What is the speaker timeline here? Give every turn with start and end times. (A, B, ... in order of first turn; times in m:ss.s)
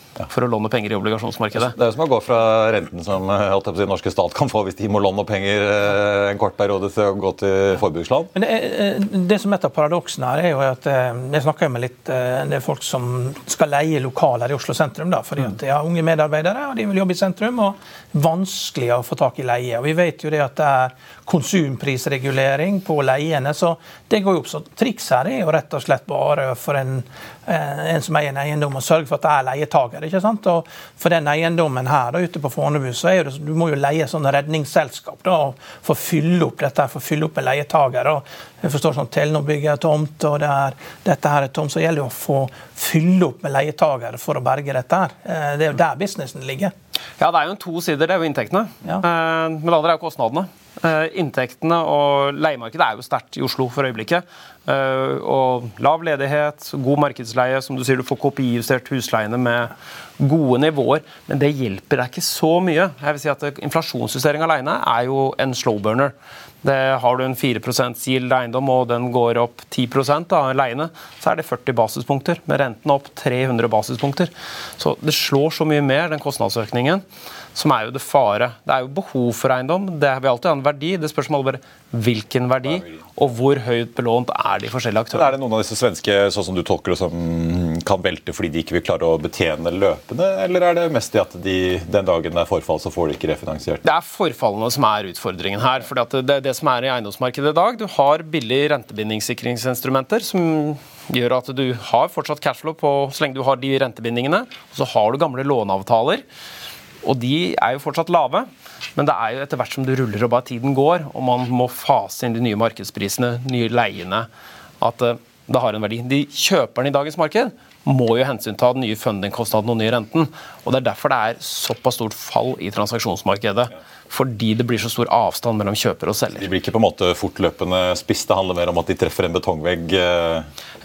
0:00.3-0:01.7 A
0:01.5-0:08.3 B
0:08.3-0:46.7 C
0:47.2-1:17.0 A
1:17.5-1:25.3 A
1:25.1-1:33.8 B
1:33.8-1:46.2 A
1:47.0-1:54.3 A
1:54.8-2:06.4 A
2:06.4-2:10.5 B